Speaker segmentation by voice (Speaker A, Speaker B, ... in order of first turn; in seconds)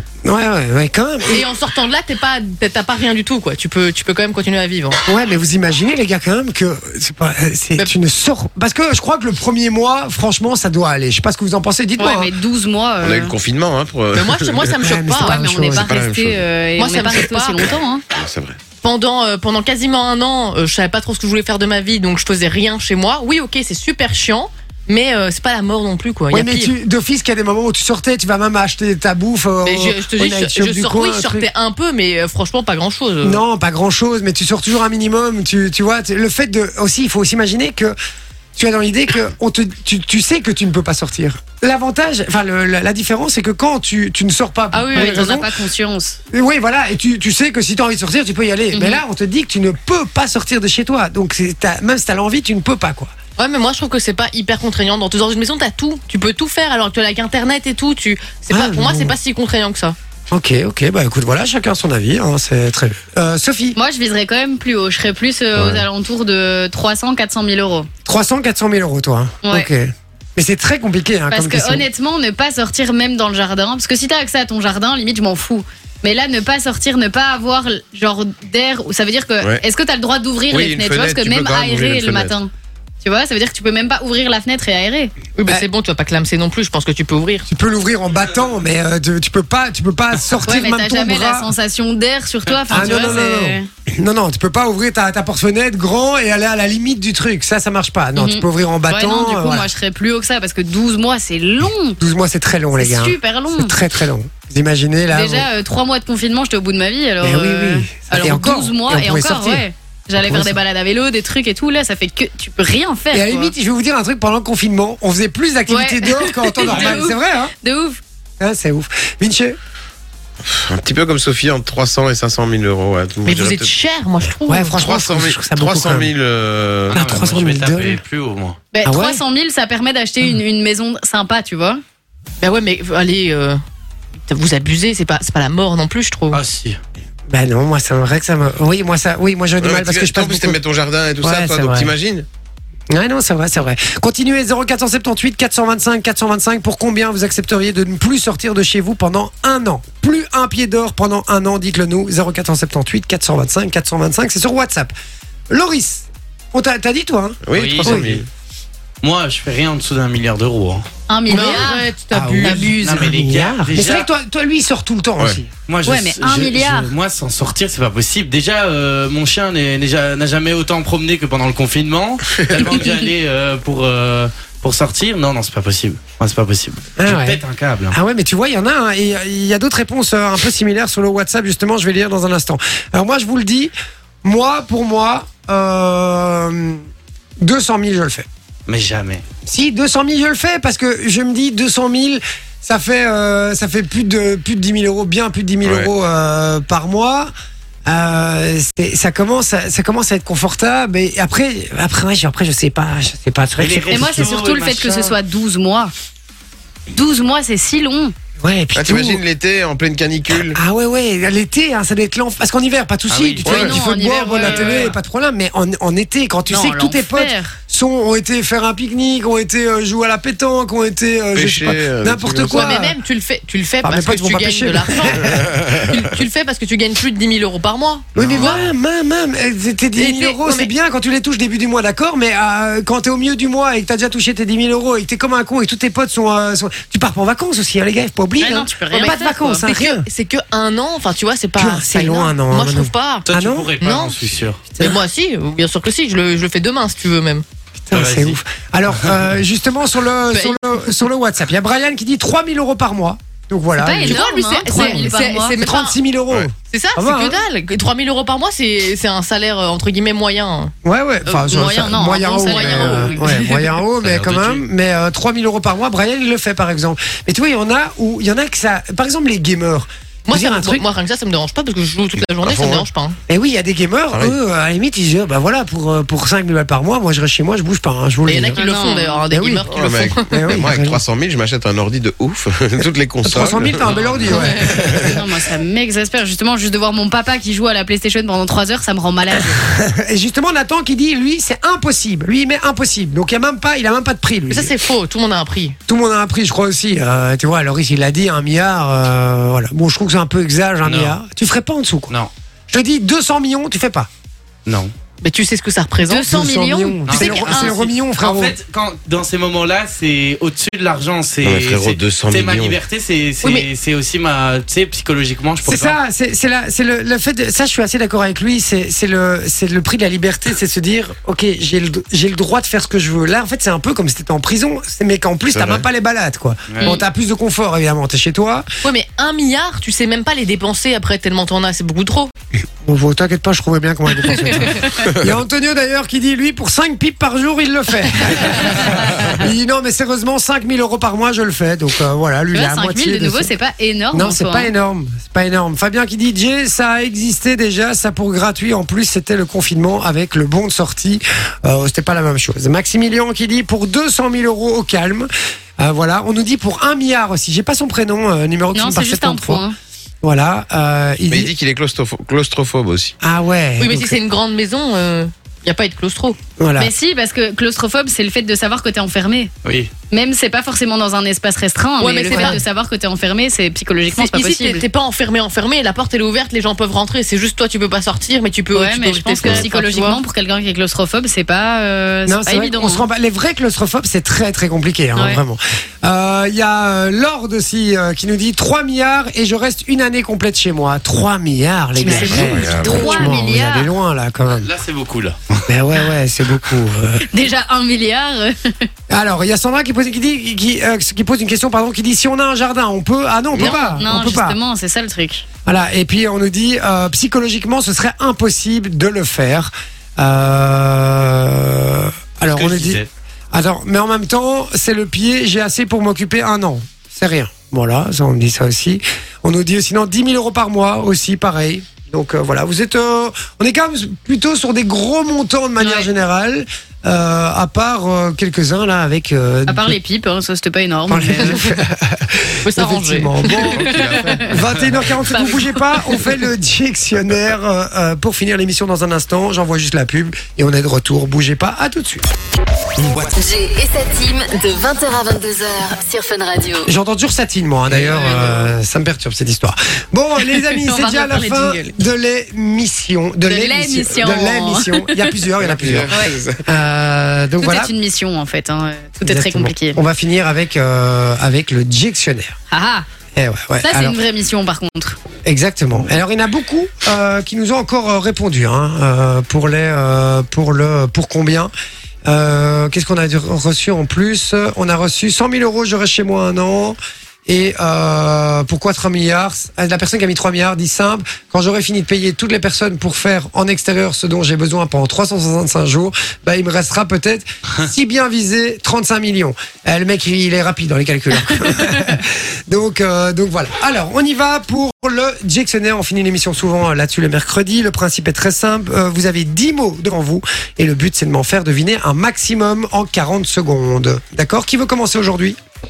Speaker A: 0.2-1.4, 5.0-12.3, 14.8-15.9, 26.3-31.5, 33.2-38.0, 38.5-45.5, 46.3-53.1, 58.5-59.1, 60.3-63.8, 65.6-65.8, 68.0-71.8, 87.5-91.5, 92.7-99.7, 102.0-105.5, 107.2-109.6, 110.2-110.5, 113.1-117.5, 118.4-119.6, 124.5-126.1, 126.9-128.0, 128.8-129.2, 137.3-140.6, 141.2-141.9, 142.9-154.9, 155.5-158.2, 161.3-165.5, 177.0-183.7, 184.2-186.8, 187.4-188.3, 189.4-197.3, 197.9-204.3, 208.4-209.2, 210.5-223.0, 223.8-225.5, 228.2-240.1, 241.6-243.7, 247.9-257.4, 260.8-270.8, 273.3-278.6, 279.3-279.7, 280.2-281.0, 283.2-285.2, 289.7-294.8, 295.9-302.1, 302.7-304.1, 306.2-308.6, 315.6-328.7, 332.8-343.5, 344.1-359.6, 360.2-361.5, 363.2-364.1, 366.6-366.9, 382.3-394.7, 395.7-397.2, 399.1-404.6, 405.6-413.0, 413.5-429.9, 431.1-442.3, 446.9-457.9, 459.2-462.5, 463.3-464.2, 465.4-471.7, 472.2-505.6
Speaker B: 1.3-5.0, 14.1-15.4, 16.8-17.7, 18.8-26.7, 29.6-33.4, 44.7-45.3, 53.4-60.0, 85.3-87.5, 123.2-124.8, 132.4-133.6, 134.2-136.4, 161.3-162.9, 222.3-228.7, 229.9-230.7, 238.9-243.3, 243.8-244.2, 244.7-247.4, 250.3-250.6, 254.0-256.0, 256.6-260.7, 262.4-263.3, 270.3-273.2, 278.2-280.4, 294.5-295.8, 305.2-307.8, 313.4-313.7, 328.8-332.3, 363.8-366.4, 372.0-372.6, 374.1-380.2, 392.1-393.3, 403.6-404.0, 425.8-426.1, 432.7-433.6
Speaker C: 12.0-13.3, 15.2-18.0, 44.7-46.2, 48.7-49.0, 63.8-67.9, 69.4-69.7, 71.3-82.5, 83.0-85.1, 90.4-93.7, 98.2-102.0, 102.8-103.7, 105.1-113.5, 115.7-118.0, 128.7-131.8, 161.1-162.7, 165.8-166.9, 203.9-205.9, 206.9-208.1, 213.4-214.9, 216.5-217.6, 238.4-239.6, 253.8-255.6, 261.2-263.5, 278.5-279.2, 284.3-289.7, 306.1-306.9, 342.5-344.7, 358.7-359.7, 366.8-369.5, 370.1-374.8, 378.7-383.1, 385.1-385.4, 392.0-393.9, 397.3-398.9, 403.6-405.4, 429.7-431.6, 433.6-434.4, 435.3-436.2, 450.4-451.9, 453.4-455.4, 456.1-456.4, 457.6-460.0, 462.7-463.1, 463.8-465.2
Speaker D: 13.0-14.8, 15.7-16.4, 18.1-18.6, 80.5-82.3, 120.4-123.7, 124.7-127.0, 139.6-142.3, 157.5-158.3, 195.6-195.9, 208.7-210.6, 213.4-213.7, 221.3-222.8, 225.2-226.0, 228.1-228.7, 272.3-272.9, 274.1-274.4, 279.6-285.1, 311.4-312.8, 325.5-325.9, 335.0-335.4, 361.3-363.1, 392.1-393.1, 433.8-434.9, 455.6-456.7
Speaker E: 92.5-93.1, 116.7-117.0, 126.9-128.6, 136.3-136.8, 157.5-158.2, 159.0-160.8, 162.7-164.1, 165.7-177.9, 188.7-189.2, 203.6-205.1, 213.1-213.8, 214.4-214.9, 243.2-244.8, 247.9-248.4, 264.0-264.6, 283.8-284.4, 300.8-301.2, 304.6-304.9, 307.1-316.0, 326.7-326.9, 369.6-369.9, 394.6-395.6, 412.5-413.1, 434.5-435.0, 448.0-448.5
Speaker F: 443.3-446.9